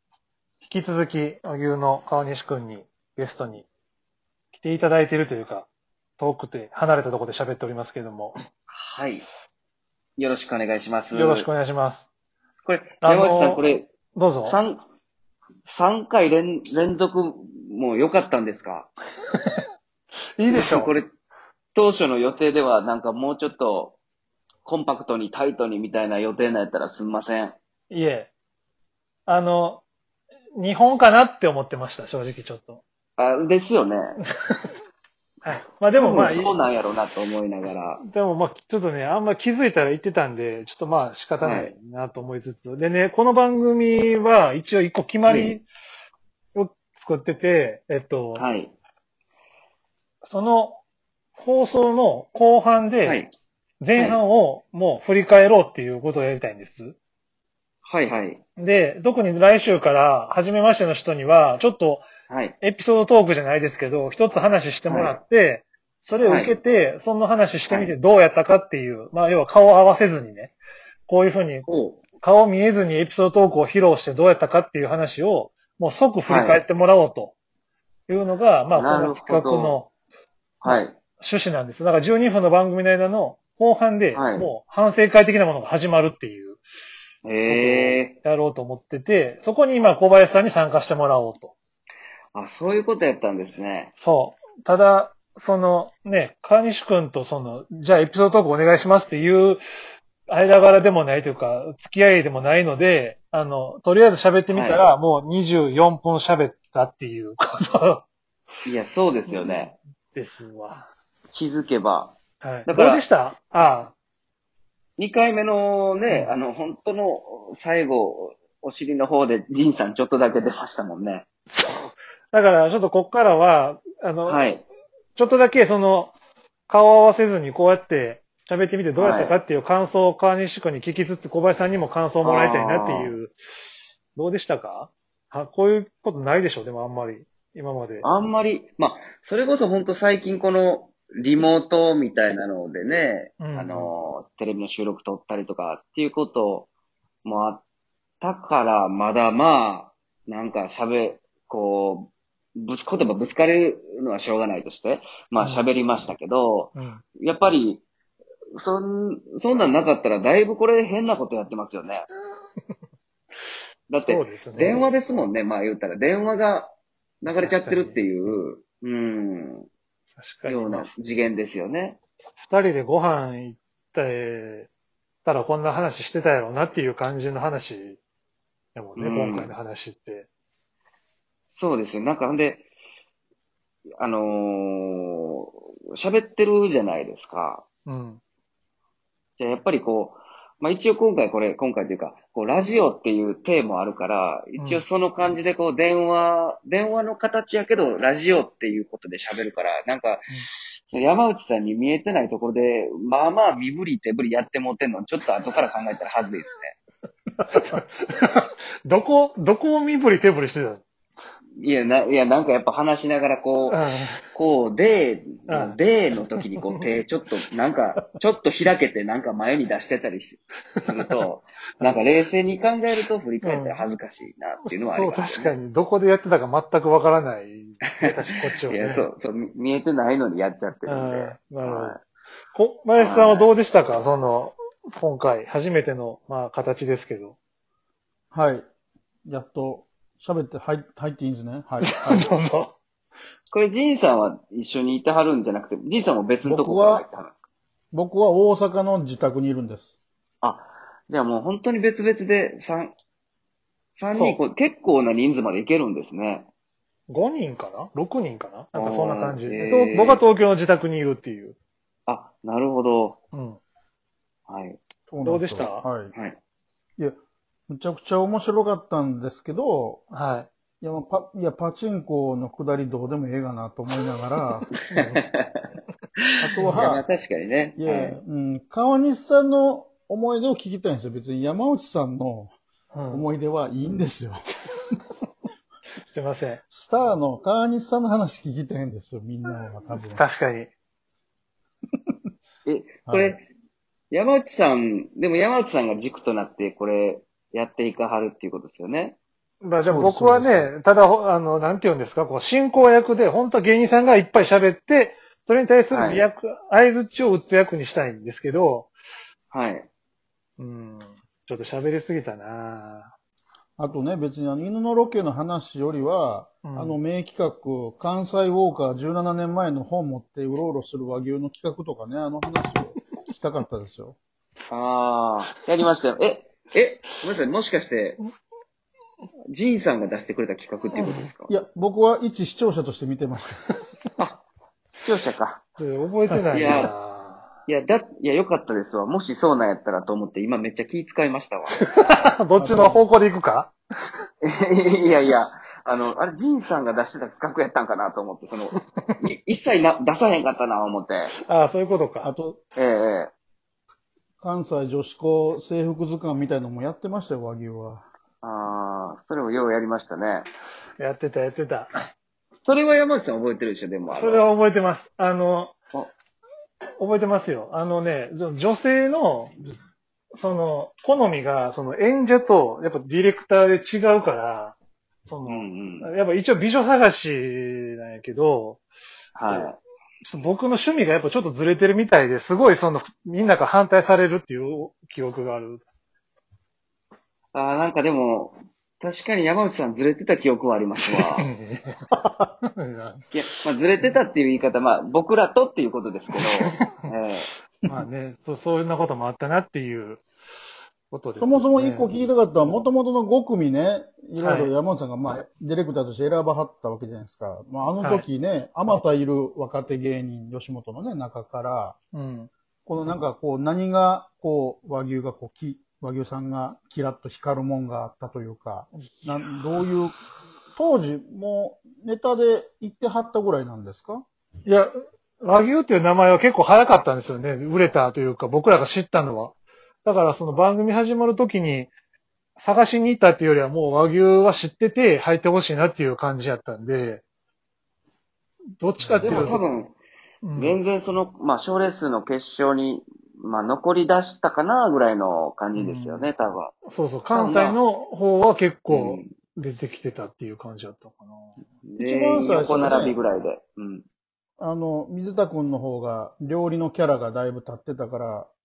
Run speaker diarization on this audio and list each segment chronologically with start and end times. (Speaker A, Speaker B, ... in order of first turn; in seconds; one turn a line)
Speaker A: 0.6-3.7
Speaker A: 4.5-8.3
Speaker B: 8.7-9.2
Speaker B: 10.2-11.5
Speaker A: 11.1-12.1
Speaker B: 12.6-13.9
Speaker A: 13.0-13.6
Speaker A: 14.1-14.6
Speaker B: 14.4-14.8
Speaker B: 15.6-18.9
Speaker A: 20.4-20.9
Speaker B: 20.5-21.1
Speaker B: 21.7-24.0
Speaker B: 24.6-27.6
Speaker A: 27.9-28.3
Speaker A: 29.2-29.8
Speaker A: 30.5-32.8
Speaker B: 33.2-34.2
Speaker A: 35.4-36.6
Speaker B: 35.5-38.0
Speaker A: 38.0-45.6
Speaker B: 41.4-41.7
Speaker B: 45.2-45.6
Speaker A: 46.5-48.5
Speaker B: 48.3-48.7
Speaker A: 50.2-50.8
Speaker A: 51.4-53.2
Speaker B: 53.0-53.3
Speaker A: 53.8-57.0
Speaker B: 57.9-58.4
Speaker A: 58.6-62.1
Speaker B: 62.3-62.5
Speaker A: 62.6-70.5
Speaker B: 64.8-65.2
Speaker B: 66.2-66.5
Speaker B: 67.7-67.9
Speaker A: 71.0-71.7
Speaker B: 71.7-72.0
Speaker A: 72.2-77.3
Speaker B: 76.2-76.6
Speaker A: 78.1-79.9
Speaker B: 78.7-79.8
Speaker B: 80.6-81.0
Speaker A: 80.7-86.6
Speaker B: 84.1-84.5
Speaker B: 87.2-88.2
Speaker A: 87.5-91.5
Speaker B: 92.3-93.9
Speaker A: 93.9-99.6
Speaker A: 100.3-108.0
Speaker B: 104.5-104.8
Speaker B: 108.7-109.7
Speaker A: 109.3-110.9
Speaker B: 111.3-113.0
Speaker A: 112.4-113.9
Speaker B: 115.0-121.2
Speaker A: 121.5-124.4
Speaker B: 124.2-124.7
Speaker A: 125.2-126.1
Speaker A: 126.7-133.3
Speaker B: 128.9-129.4
Speaker B: 132.2-133.2
Speaker A: 134.1-138.1
Speaker B: 138.0-146.7
Speaker A: 143.4-143.9
Speaker B: 147.2-147.6
Speaker B: 148.2-157.8
Speaker A: 155.4-155.7
Speaker A: 156.7-157.0
Speaker B: 158.6-162.1
Speaker B: 163.9-169.7
Speaker A: 164.1-164.9
Speaker A: 167.4-168.0
Speaker A: 170.2-170.9
Speaker B: 170.4-172.0
Speaker A: 172.5-174.7
Speaker A: 175.2-178.0
Speaker A: 178.7-180.3
Speaker B: 179.0-179.5
Speaker B: 181.5-182.7
Speaker B: 184.0-187.6
Speaker A: 187.8-188.2
Speaker B: 189.4-200.3
Speaker A: 194.6-194.8
Speaker B: 200.9-206.8
Speaker A: 207.5-210.8
Speaker B: 211.6-213.8
Speaker A: 213.7-214.2
Speaker B: 214.3-225.5
Speaker A: 215.5-215.8
Speaker A: 223.4-223.8
Speaker A: 224.6-229.1
Speaker B: 227.9-232.0
Speaker A: 230.8-232.0
Speaker A: 232.5-237.4
Speaker B: 232.9-233.5
Speaker C: 238.3-238.7
Speaker C: 239.2-242.3
Speaker A: 241.8-242.7
Speaker B: 243.5-247.4
Speaker C: 246.4-247.1
Speaker C: 247.9-250.0
Speaker B: 250.4-253.0
Speaker B: 253.9-256.5
Speaker A: 254.1-254.4
Speaker A: 257.1-261.6
Speaker B: 258.7-260.2
Speaker B: 262.1-263.2
Speaker A: 263.3-263.6
Speaker B: 264.5-264.8
Speaker C: 265.1-266.1
Speaker A: 265.2-265.8
Speaker B: 266.1-266.4
Speaker C: 267.7-270.0
Speaker A: 270.1-270.5
Speaker C: 270.8-274.7
Speaker A: 274.9-275.2
Speaker B: 274.9-275.6
Speaker C: 276.4-277.0
Speaker A: 276.6-276.9
Speaker B: 276.7-278.2
Speaker C: 277.8-282.5
Speaker A: 282.9-283.3
Speaker C: 283.1-284.8
Speaker A: 286.1-286.6
Speaker C: 286.7-290.2
Speaker A: 290.0-290.7
Speaker B: 292.6-293.4
Speaker C: 293.1-293.4
Speaker B: 294.1-299.2
Speaker A: 299.6-308.9
Speaker C: 299.8-300.7
Speaker B: 305.9-306.3
Speaker B: 309.5-309.9
Speaker A: 310.6-313.1
Speaker C: 313.8-324.2
Speaker A: 316.6-317.0
Speaker B: 324.7-328.2
Speaker B: 329.5-331.5
Speaker A: 330.9-331.2
Speaker C: 331.5-333.6
Speaker B: 334.2-334.4
Speaker B: 335.0-335.6
Speaker A: 335.8-337.4
Speaker B: 336.5-336.9
Speaker B: 337.7-341.8
Speaker A: 341.8-343.7
Speaker C: 342.6-343.0
Speaker B: 344.4-351.3
Speaker A: 348.7-349.1
Speaker A: 351.4-352.3
Speaker C: 352.2-352.6
Speaker B: 352.8-353.3
Speaker C: 354.4-358.0
Speaker B: 358.4-360.5
Speaker A: 361.0-361.9
Speaker B: 362.6-364.4
Speaker A: 364.1-365.8
Speaker A: 367.0-369.7
Speaker A: 370.3-378.8
Speaker B: 375.5-376.1
Speaker B: 379.4-379.8
Speaker A: 380.2-385.8
Speaker B: 387.5-391.5
Speaker A: 391.1-392.0
Speaker A: 392.7-393.2
Speaker B: 393.3-397.5
Speaker A: 396.4-396.9
Speaker A: 397.8-400.2
Speaker A: 401.1-402.1
Speaker C: 401.4-411.9
Speaker A: 404.4-404.7
Speaker A: 408.0-408.2
Speaker A: 412.1-412.5
Speaker C: 412.9-420.1
Speaker C: 420.8-424.2
Speaker A: 424.6-431.9
Speaker A: 432.6-437.2
Speaker A: 438.8-439.6
Speaker C: 439.0-439.6
Speaker B: 439.2-439.9
Speaker A: 440.4-440.8
Speaker B: 440.6-446.7
Speaker A: 445.8-446.3
Speaker A: 446.9-451.6
Speaker B: 447.3-447.8
Speaker B: 448.9-449.3
Speaker B: 451.8-454.0
Speaker C: 452.0-453.2
Speaker C: 454.6-458.5